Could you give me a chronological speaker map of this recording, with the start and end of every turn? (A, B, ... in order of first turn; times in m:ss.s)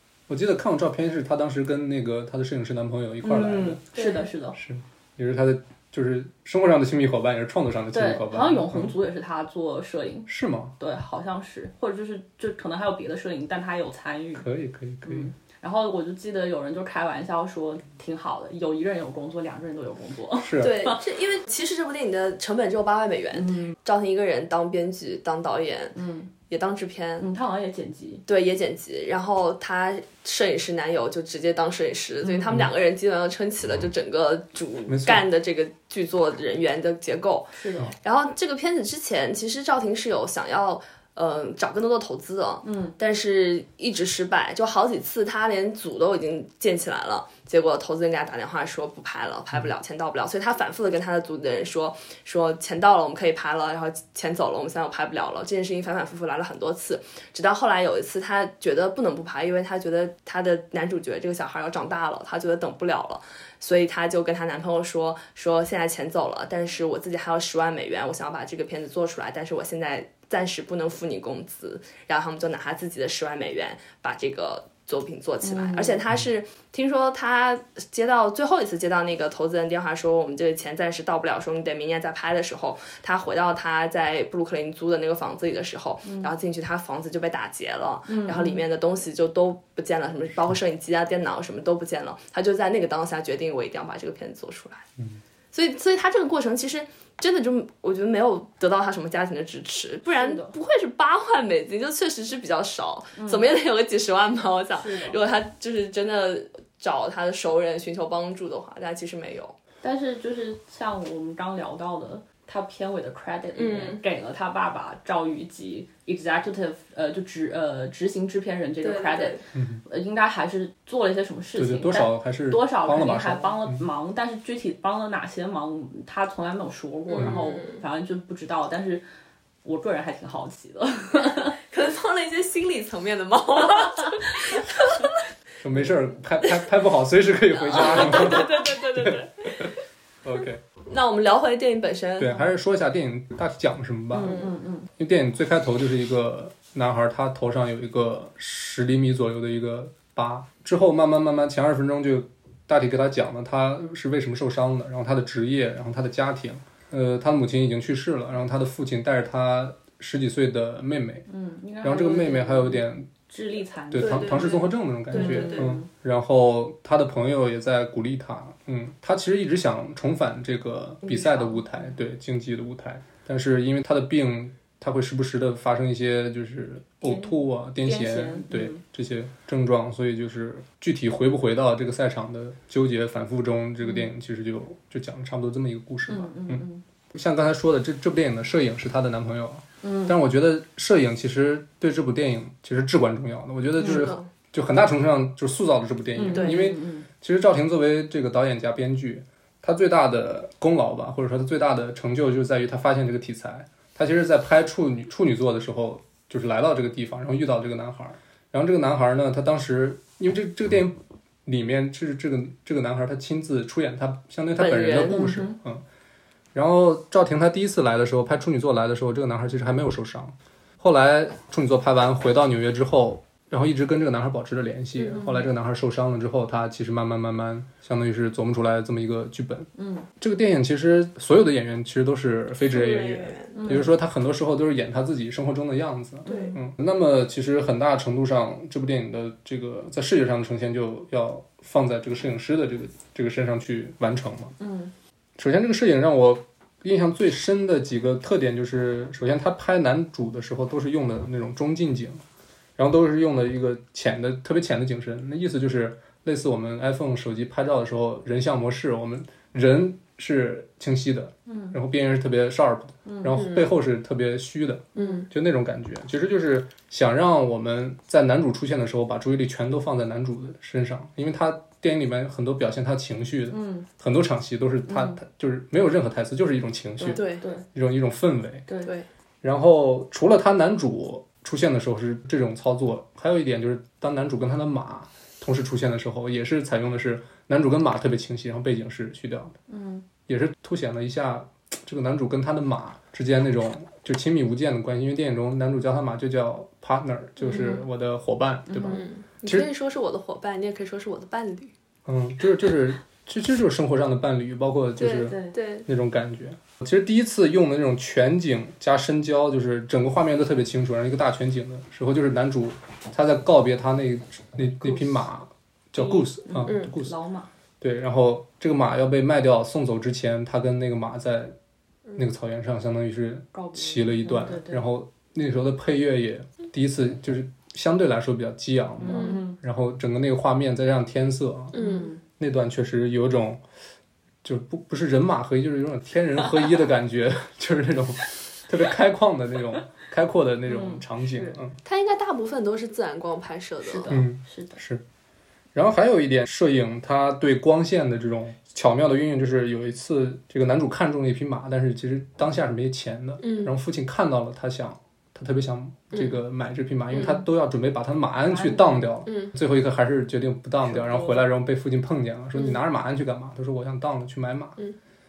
0:00.3-0:03.8 A
0:03.2-0:04.6 B
0:04.0-0:04.3 C
0:04.6-0:08.9 A
0:07.9-0:14.5 B
0:10.3-0:10.7 A
0:14.4-0:15.3 A
0:15.0-0:21.0 B
0:20.4-0:20.7 A
0:20.6-0:26.0 C
0:23.3-0:23.8 B
0:25.9-0:26.3 B
0:26.5-0:27.3 C
0:27.2-0:28.2 B
0:28.3-1:34.9 C
0:32.2-0:32.5 B
0:34.9-0:35.2 A
0:37.5-0:37.9 B
0:42.6-0:43.0 B
1:15.4-1:16.0 B
1:26.0-1:26.3 B
1:28.1-1:28.6 B
1:35.5-1:49.6 C
1:40.1-1:40.5 B
1:43.2-1:43.5 B
1:44.7-1:45.2 B
1:49.8-2:09.0 B
1:53.6-1:54.0 C
1:58.8-1:59.4 C
1:59.5-1:59.8 A
2:01.6-2:03.8 A
2:07.1-2:07.8 C
2:09.6-2:11.6 B
2:11.7-2:15.1 C
2:15.6-2:19.7 A
2:17.6-2:19.8 C
2:20.2-2:20.6 A
2:20.9-2:22.4 C
2:22.2-2:24.4 A
2:24.1-2:24.9 B
2:24.2-2:24.5 C
2:25.0-2:41.2 A
2:41.3-2:45.9 B
2:41.8-2:43.1 A
2:43.9-3:35.8 A
2:44.0-2:45.7 C
2:51.0-2:51.9 B
2:57.0-2:58.8 B
3:03.8-3:04.1 B
3:06.1-3:06.8 B
3:09.8-3:10.2 B
3:13.8-3:14.1 B
3:13.8-3:14.3 C
3:16.1-3:17.1 B
3:16.3-3:16.8 C
3:34.6-3:35.3 C
3:35.1-3:35.6 B
3:36.5-4:04.5 A
3:45.1-3:45.5 B
3:49.8-3:50.1 B
3:52.6-3:53.8 C
3:53.5-3:53.9 B
3:56.2-3:56.6 B
3:56.3-3:56.5 C
4:04.6-4:04.9 B
4:05.4-4:12.2 A
4:12.8-4:38.6 A
4:21.5-4:21.8 B
4:23.0-4:23.4 B
4:23.3-4:23.7 C
4:25.0-4:25.3 C
4:25.0-4:25.3 B
4:33.5-4:33.9 B
4:34.9-4:35.2 B
4:37.0-4:37.6 B
4:37.1-4:37.4 C
4:39.4-4:49.6 A
4:49.7-4:50.0 B
4:50.3-4:59.7 A
4:57.4-4:57.8 B
4:57.5-4:57.7 C
4:58.7-4:59.0 B
4:58.8-5:01.7 C
5:02.0-5:17.1 A
5:05.0-5:05.9 C
5:05.2-5:05.5 B
5:14.8-5:15.2 B
5:16.0-5:17.5 B
5:16.6-5:16.9 C
5:17.8-5:21.6 A
5:22.2-5:31.8 A
5:23.5-5:24.8 B
5:29.0-5:29.6 B
5:29.1-5:29.4 C
5:31.7-5:32.1 C
5:31.7-5:32.2 B
5:32.4-5:33.6 A
5:34.4-5:41.8 A
5:40.7-5:41.6 B
5:41.8-5:44.2 C
5:43.8-5:44.8 B
5:44.1-5:45.0 A
5:45.7-6:04.8 A
5:53.4-5:53.7 C
5:56.1-5:56.4 C
5:57.1-5:57.4 C
5:58.4-5:59.2 B
5:59.2-5:59.5 C
6:00.8-6:01.4 B
6:02.5-6:02.8 C